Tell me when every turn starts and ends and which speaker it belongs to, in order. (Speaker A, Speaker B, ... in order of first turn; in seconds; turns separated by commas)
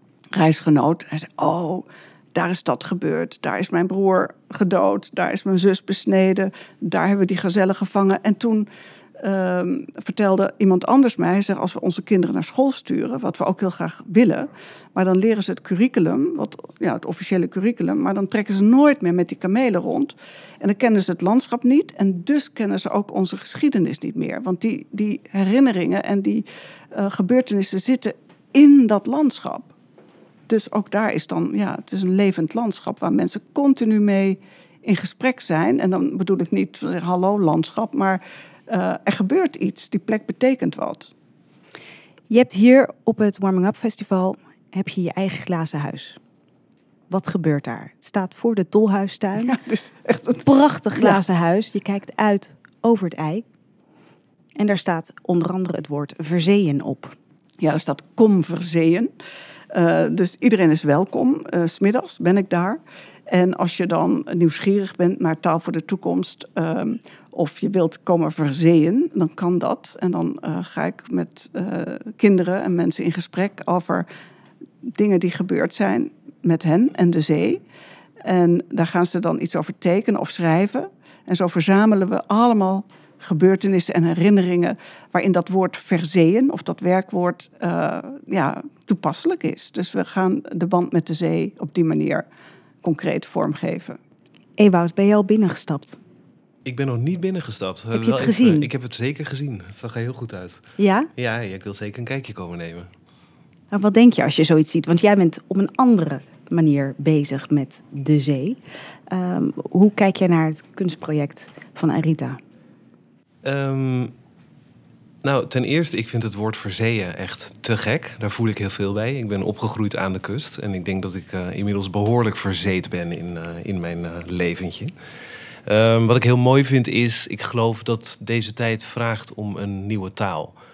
Speaker A: 0.3-29.7, Speaker A: 30.5-41.1, Speaker B: 42.3-46.2, Speaker B: 47.1-49.5, Speaker A: 49.4-51.2, Speaker B: 50.4-53.4, Speaker B: 54.5-57.1, Speaker A: 57.6-59.1, Speaker A: 59.7-74.1, Speaker A: 74.8-77.6, Speaker A: 78.2-92.3, Speaker A: 92.8-94.0, Speaker B: 94.6-96.0, Speaker C: 96.6-100.6, Speaker B: 97.9-98.7, Speaker B: 100.8-101.1, Speaker C: 101.2-102.9, Speaker B: 103.7-108.6, Speaker B: 109.1-112.4, Speaker C: 113.4-114.1, Speaker C: 115.2-124.9, Speaker C: 125.7-130.5